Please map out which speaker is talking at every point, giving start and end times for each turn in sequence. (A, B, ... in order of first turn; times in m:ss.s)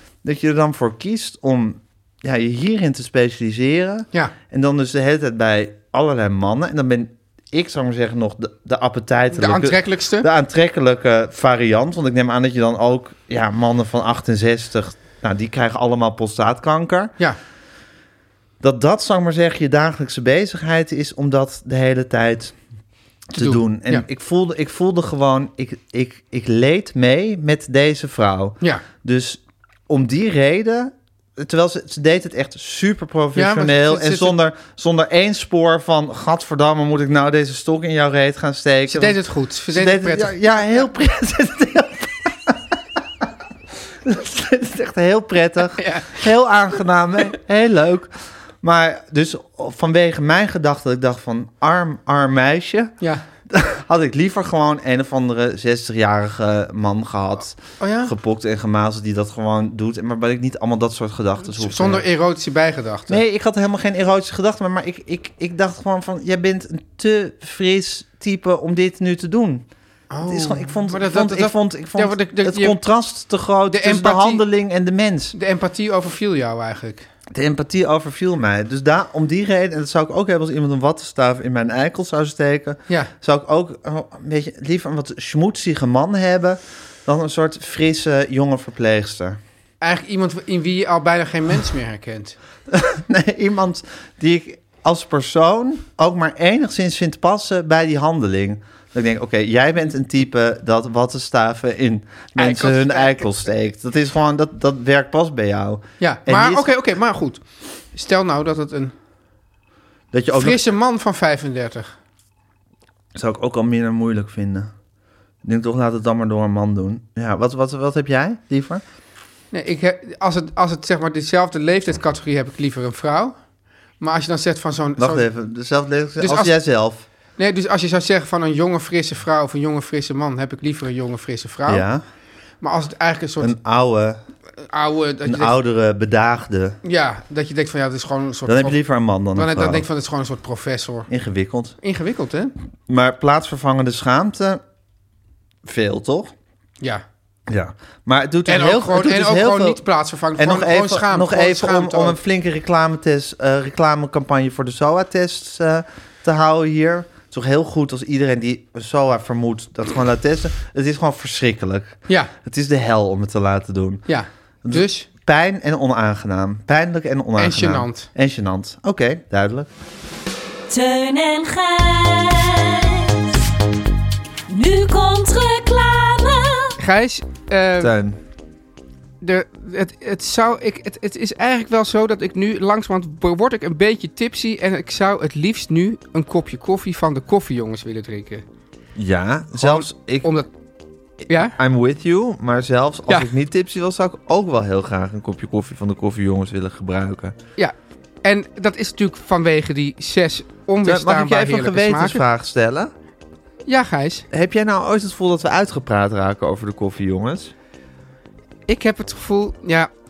0:00.2-0:17.1 A
0:09.3-0:10.3 B
0:18.6-0:22.6 A
0:23.3-0:39.2 A
0:23.3-0:24.0 B
0:33.3-0:34.4 B
0:38.9-0:40.5 B
0:39.7-0:43.3 A
0:44.0-0:52.9 A
0:45.8-0:46.2 B
0:53.5-1:02.0 A
0:57.8-0:58.1 B
1:01.5-1:03.2 B
1:03.1-1:09.6 A
1:10.1-1:12.8 B
1:10.3-1:15.3 A
1:13.7-1:14.4 B
1:15.3-1:17.1 B
1:17.3-1:29.4 A
1:29.8-1:32.4 B
1:32.7-1:46.7 A
1:42.4-1:43.2 B
1:46.0-1:48.9 B
1:50.1-1:50.6 A
1:50.3-1:51.9 B
1:53.1-1:54.7 A
1:55.4-1:58.8 A
1:59.5-2:03.4 B
2:04.0-2:05.2 B
2:05.0-2:07.0 A
2:06.2-2:06.5 B
2:07.4-2:11.9 B
2:11.7-2:12.0 A
2:12.6-2:13.5 B
2:13.4-2:14.2 A
2:14.6-2:15.5 B
2:15.2-2:16.8 A
2:16.8-2:18.8 B
2:18.4-2:19.8 A
2:19.3-2:21.1 B
2:21.1-2:21.8 A
2:21.8-2:22.5 B
2:22.9-2:24.6 A
2:25.6-2:26.3 A
2:27.5-2:29.8 A
2:28.5-2:32.2 B
2:30.4-2:44.0 A
2:42.1-2:42.3 B
2:44.1-2:45.1 B
2:44.6-2:49.7 A
2:47.4-2:48.1 B
2:50.7-2:53.4 C
2:54.5-2:56.8 C
2:56.8-2:57.9 B
2:57.8-2:58.2 A
2:59.2-3:08.4 B
3:09.0-3:10.3 A
3:09.6-3:10.5 B
3:11.3-3:11.6 B
3:11.5-3:17.3 A
3:17.6-3:22.2 B
3:20.8-3:22.9 A
3:23.6-3:24.2 B
3:24.3-3:27.5 A
3:28.7-3:29.9 B